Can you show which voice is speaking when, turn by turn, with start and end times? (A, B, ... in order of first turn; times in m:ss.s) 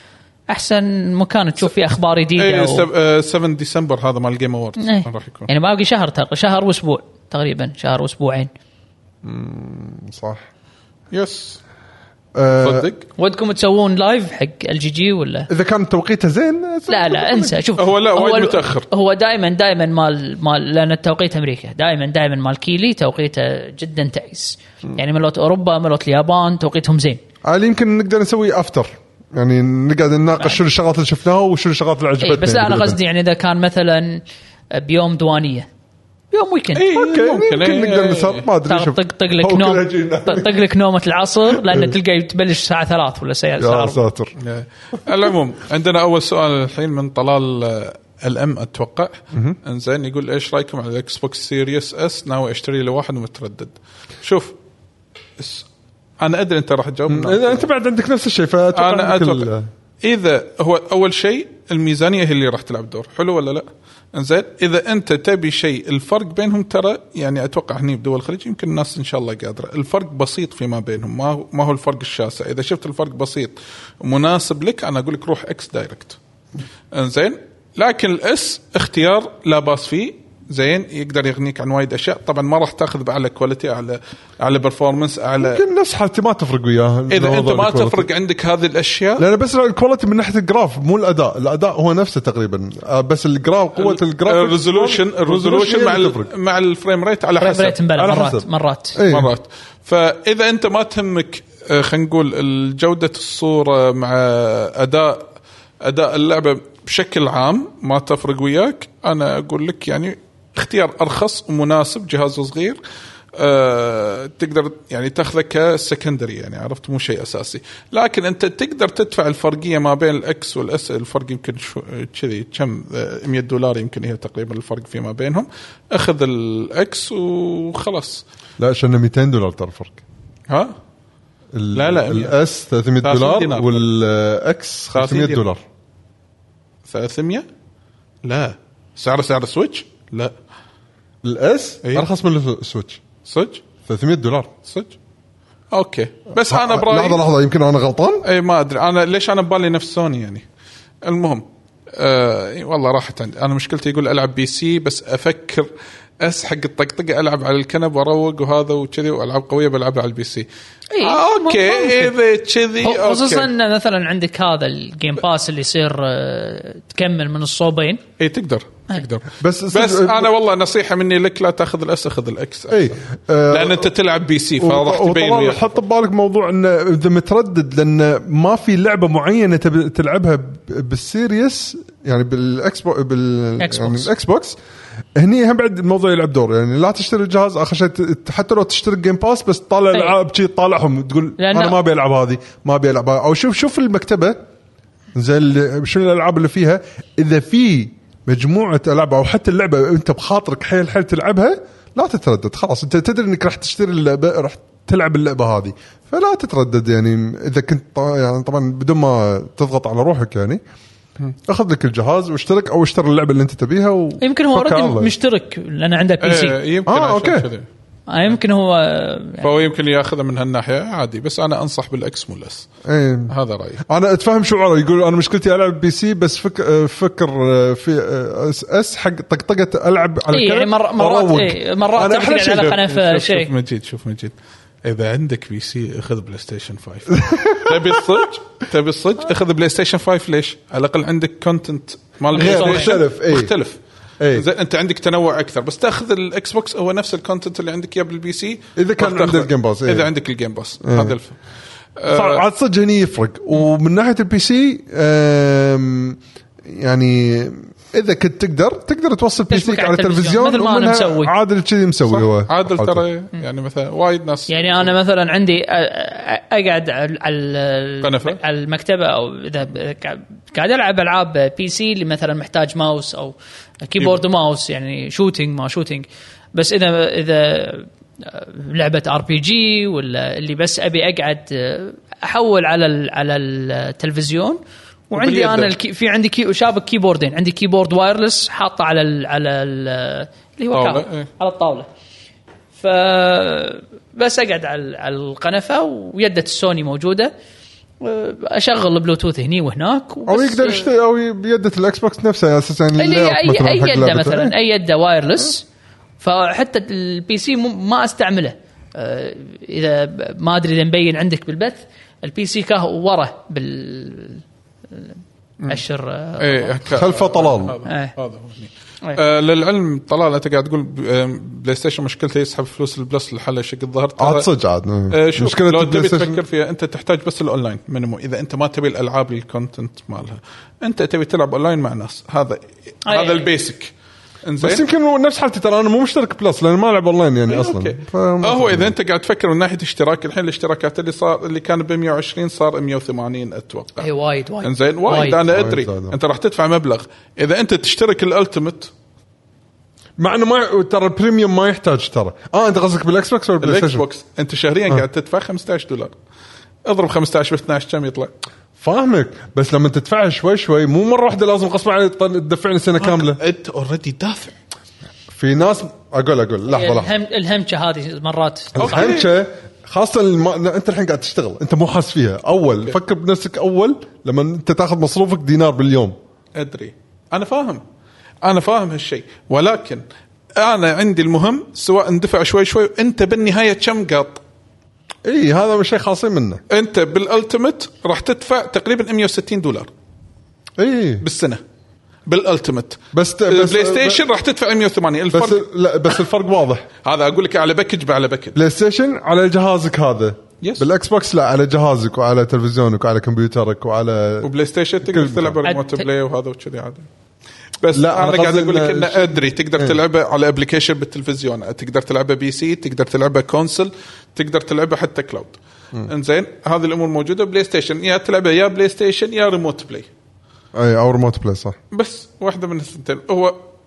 0:00.5-0:02.9 A
0:02.4-0:05.5 B
0:04.8-0:08.5 A
0:09.2-0:10.4 C
0:11.1-0:11.6 B
0:12.4-0:12.9 C
0:12.6-0:13.1 B
0:13.2-0:15.5 A
0:15.5-0:17.6 C
0:16.9-0:27.2 A
0:17.8-0:18.9 B
0:27.4-0:33.0 C
0:32.2-0:35.7 A
0:36.3-0:36.9 A
0:36.8-0:38.5 B
0:36.9-0:40.6 C
0:38.7-0:44.0 A
0:41.5-0:41.9 C
0:43.6-0:44.3 C
0:44.4-0:54.6 B
0:55.4-0:55.7 B
0:56.2-0:57.7 B
0:57.1-0:59.7 C
0:58.7-0:59.5 B
1:00.0-1:16.2 B
1:16.9-1:25.6 B
1:25.4-1:28.1 C
1:27.1-1:29.2 B
1:29.2-1:36.3 C
1:33.8-1:37.8 B
1:37.4-1:39.0 A
1:38.0-1:39.3 C
1:39.0-1:45.3 B
1:45.8-1:52.8 B
1:53.4-2:08.2 B
2:08.6-2:10.0 C
2:10.5-2:10.8 B
2:11.5-2:15.6 C
2:11.7-2:12.3 B
2:13.0-2:13.8 B
2:14.9-2:15.4 B
2:16.9-2:17.5 B
2:18.2-2:20.3 B
2:21.2-2:23.0 C
2:23.2-2:23.6 B
2:23.8-2:24.5 C
2:24.7-2:24.9 B
2:25.7-2:27.2 B
2:26.4-2:28.2 C
2:28.2-2:30.4 B
2:31.0-2:31.4 B
2:32.0-2:35.7 B
2:36.2-2:40.5 B
2:40.9-2:42.1 A
2:41.0-2:43.5 B
2:42.8-2:48.0 A
2:48.2-2:53.0 B
2:49.4-2:50.3 C
2:52.7-2:53.9 C
2:53.5-2:55.7 B
2:54.6-3:04.6 C
3:03.6-3:04.1 A
3:05.2-3:14.4 C
3:11.4-3:11.8 A
3:15.2-3:30.6 C
3:31.5-3:35.1 C
3:34.2-3:36.6 A
3:36.2-3:37.7 B
3:36.9-3:37.5 C
3:38.1-3:39.5 A
3:39.4-3:42.7 B
3:42.9-3:43.3 C
3:43.3-3:43.8 B
3:43.9-3:52.8 C
3:50.3-3:53.5 A
3:52.5-4:03.8 B
3:57.2-3:58.0 C
4:02.3-4:03.0 A
4:02.3-4:03.5 C
4:04.2-4:04.5 C
4:04.3-4:11.4 B
4:08.8-4:10.1 C
4:10.8-4:11.2 C
4:12.0-4:12.4 B
4:12.1-4:23.0 C
4:19.5-4:21.3 A
4:22.1-4:24.9 B
4:24.5-4:51.9 A
4:28.0-4:28.4 B
4:45.1-4:45.7 B
4:50.7-4:51.3 B
4:52.7-4:57.3 A
4:58.0-5:00.9 A
5:00.3-5:04.5 C
5:03.0-5:05.6 A
5:06.2-5:15.2 A
5:15.7-5:16.8 A
5:16.4-5:24.5 B
5:16.9-5:17.8 C
5:17.8-5:18.1 A
5:24.2-5:26.4 C
5:25.1-5:34.8 B
5:33.1-5:33.5 A
5:34.6-5:38.9 C
5:37.5-5:44.1 B
5:44.0-5:45.4 A
5:44.6-5:48.9 B
5:45.4-5:46.2 C
5:50.2-5:54.0 C
5:53.6-5:56.1 B
5:56.8-5:58.3 B
5:58.8-6:03.4 C
6:03.0-6:04.6 B
6:05.3-6:07.1 C
6:06.7-6:09.1 A
6:08.8-6:16.2 C
6:08.8-6:09.3 B
6:16.6-6:17.8 B
6:18.4-6:20.0 B
6:20.6-6:24.4 B
6:25.2-6:26.6 C
6:26.7-6:29.9 B
6:30.8-6:31.2 C
6:31.2-6:31.6 B
6:32.3-6:35.7 B
6:33.1-6:34.2 C
6:35.3-6:36.8 C
6:37.0-6:38.6 B
6:38.6-6:44.5 C
6:40.6-6:40.9 B
6:44.4-6:47.1 B
6:45.0-6:45.6 C
6:45.6-6:46.0 A
6:47.8-7:00.1 B
6:47.9-6:50.0 C
7:00.7-7:01.8 C
7:01.9-7:03.6 B